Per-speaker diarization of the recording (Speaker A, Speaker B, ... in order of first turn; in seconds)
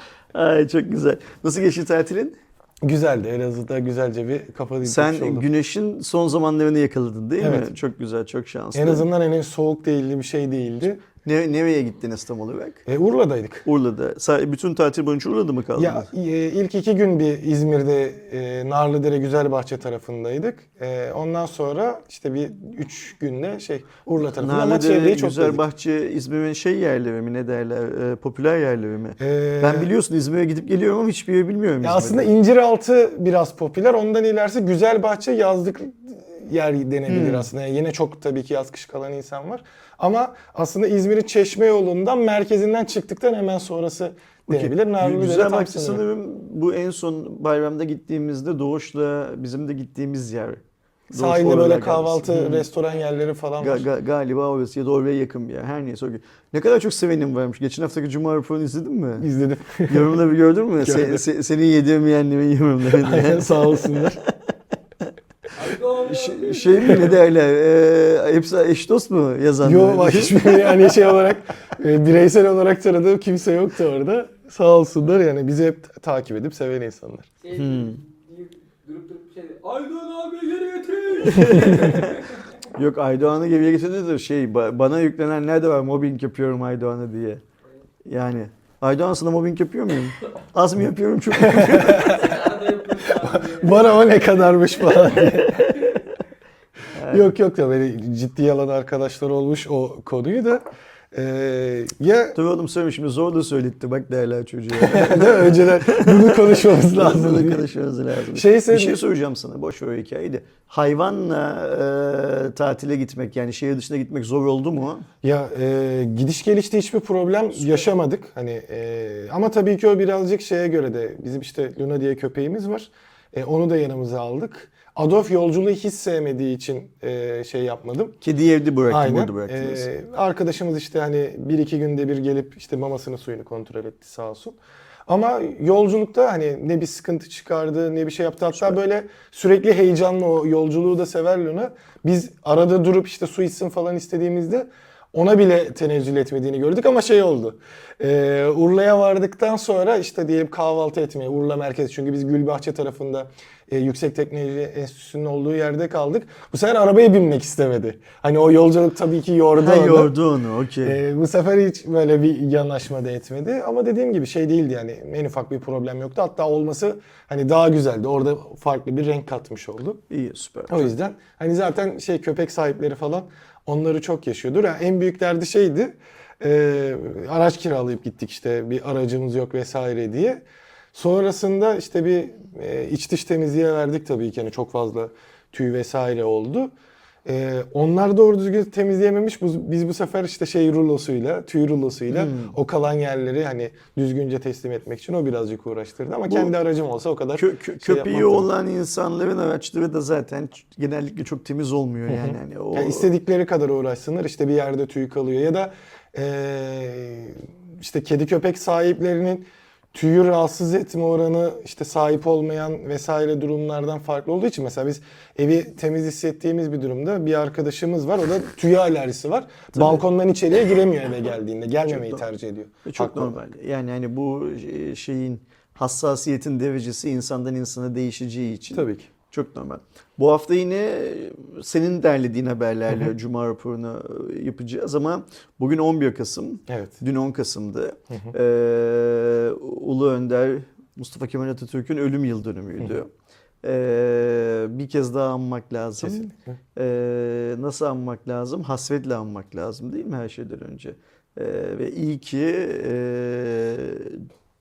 Speaker A: 0.3-2.4, 4.8-9.1, 11.2-12.8, 13.7-16.1, 24.4-32.3, 37.1-37.5, 44.5-52.7, 53.6-59.3, 59.9-64.3, 65.9-70.9, 77.5-78.0, 81.2-87.4, 88.0-92.2, 96.9-97.3, 102.3-115.1, 128.2-129.9, 159.6-161.0, 170.1-170.9, 192.1-192.6, 197.4-203.1, 219.8-220.0, 221.9-222.2, 222.8-243.1, 243.6-254.3
Speaker B: 2.8-5.5, 7.4-7.7, 8.7-11.1, 12.9-13.7, 15.8-25.6, 29.2-29.9, 31.8-46.0, 51.1-53.9, 59.2-60.2, 60.8-61.2, 62.9-64.2, 66.8-67.1, 69.6-77.3, 81.7-81.9, 91.4-92.3, 93.1-95.9, 97.1-102.4, 104.8-107.7, 108.3-109.0, 115.2-128.2, 128.9-160.1, 160.8-170.0, 170.7-180.4, 180.9-186.7, 187.2-198.5, 202.1-223.4, 228.7-229.1, 236.7-237.0, 246.0-246.6
Speaker C: 65.6-66.9, 77.4-82.4, 91.7-94.1